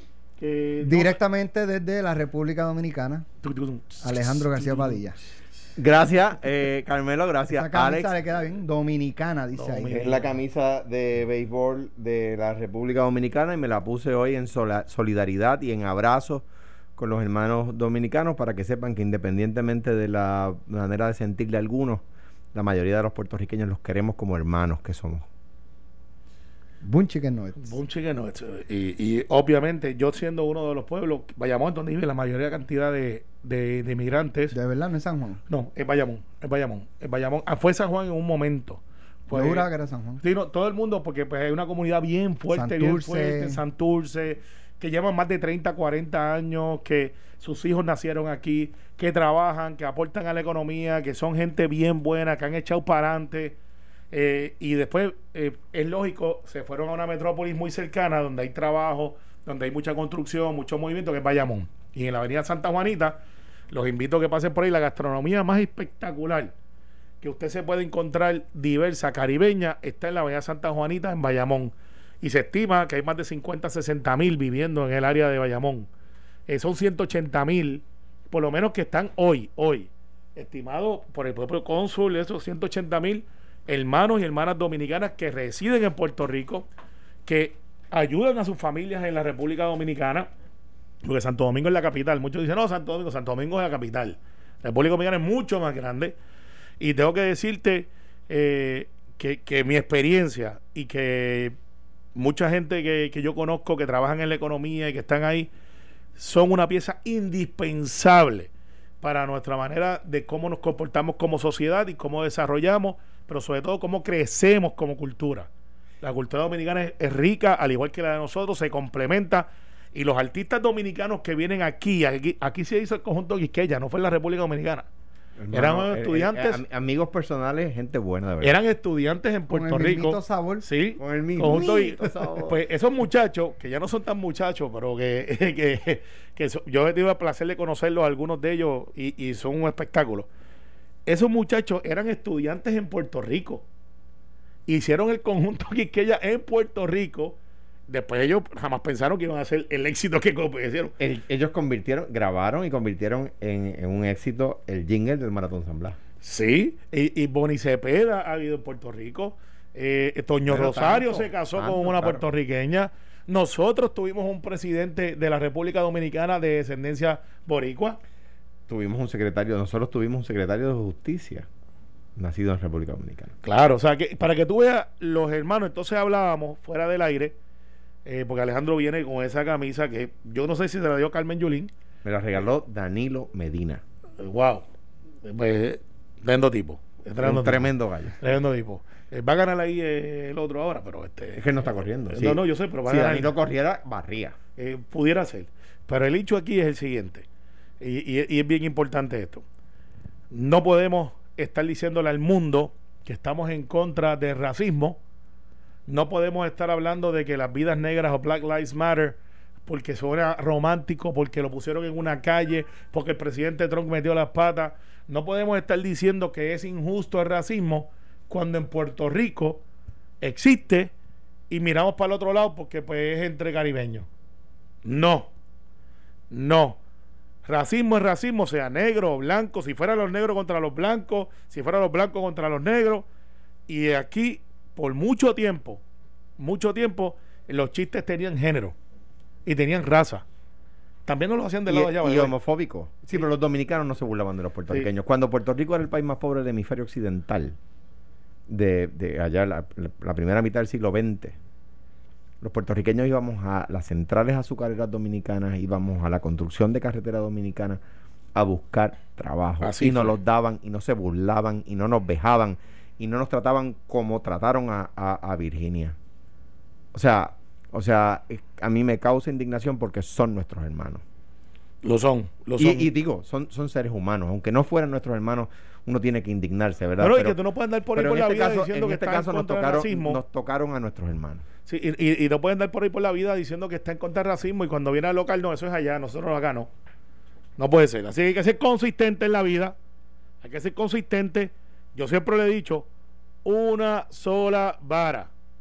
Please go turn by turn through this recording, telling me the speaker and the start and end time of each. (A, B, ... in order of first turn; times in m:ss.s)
0:00.4-0:01.2 A
0:00.8-0:03.3 B
0:03.4-0:05.0 A
0:04.0-0:05.2 B
0:05.8-0:08.1 C
0:07.5-0:10.1 B
0:09.6-0:10.3 A
0:09.9-0:22.0 C
0:22.5-0:25.3 C
0:26.8-0:27.8 B
0:27.6-0:34.6 A
0:34.5-0:35.4 B
0:35.5-0:39.7 A
0:39.3-0:40.2 B
0:40.2-0:53.6 A
0:42.5-0:43.6 B
0:54.1-1:03.2 A
1:03.7-1:06.5 A
1:07.2-1:15.9 A
1:16.5-1:26.7 A
1:27.3-1:30.3 A
1:31.0-1:36.2 A
1:36.8-1:41.6 A
1:42.2-1:45.5 A
1:46.2-1:55.5 A
1:56.0-2:04.9 A
2:05.4-2:08.6 C
2:05.5-2:06.6 A
2:08.4-2:20.3 A
2:09.5-2:10.7 B
2:11.0-2:12.6 C
2:21.1-2:23.6 A
2:24.7-2:27.4 A
2:27.9-2:30.9 A
2:31.0-2:36.0 C
2:36.2-2:48.0 A
2:40.5-2:42.3 C
2:48.7-2:51.5 C
2:52.2-2:53.3 C
2:53.4-2:57.4 A
2:58.0-3:01.7 A
3:02.0-3:03.8 C
3:04.2-3:04.6 A
3:05.2-3:11.6 A
3:07.2-3:08.2 C
3:11.4-3:14.4 C
3:12.1-3:13.4 A
3:14.6-3:17.2 A
3:17.8-3:19.4 A
3:20.3-3:25.0 A
3:25.9-3:39.6 A
3:40.2-3:40.9 A
3:41.5-3:44.1 A
3:44.8-3:45.3 A
3:46.3-3:46.8 A
3:47.4-3:53.1 A
3:53.7-3:55.8 A
3:56.4-3:58.8 A
3:59.4-4:00.2 A
4:01.1-4:02.4 A
4:01.7-4:07.6 C
4:08.5-4:11.4 C
4:12.4-4:17.8 C
4:18.4-4:26.0 C
4:19.6-4:20.1 A
4:26.9-4:31.0 C
4:31.8-4:32.9 A
4:32.6-4:37.4 C
4:37.0-4:40.2 A
4:38.0-4:41.4 C
4:41.7-4:46.7 A
4:47.6-4:49.8 A
4:50.4-4:52.9 A
4:53.4-4:55.3 A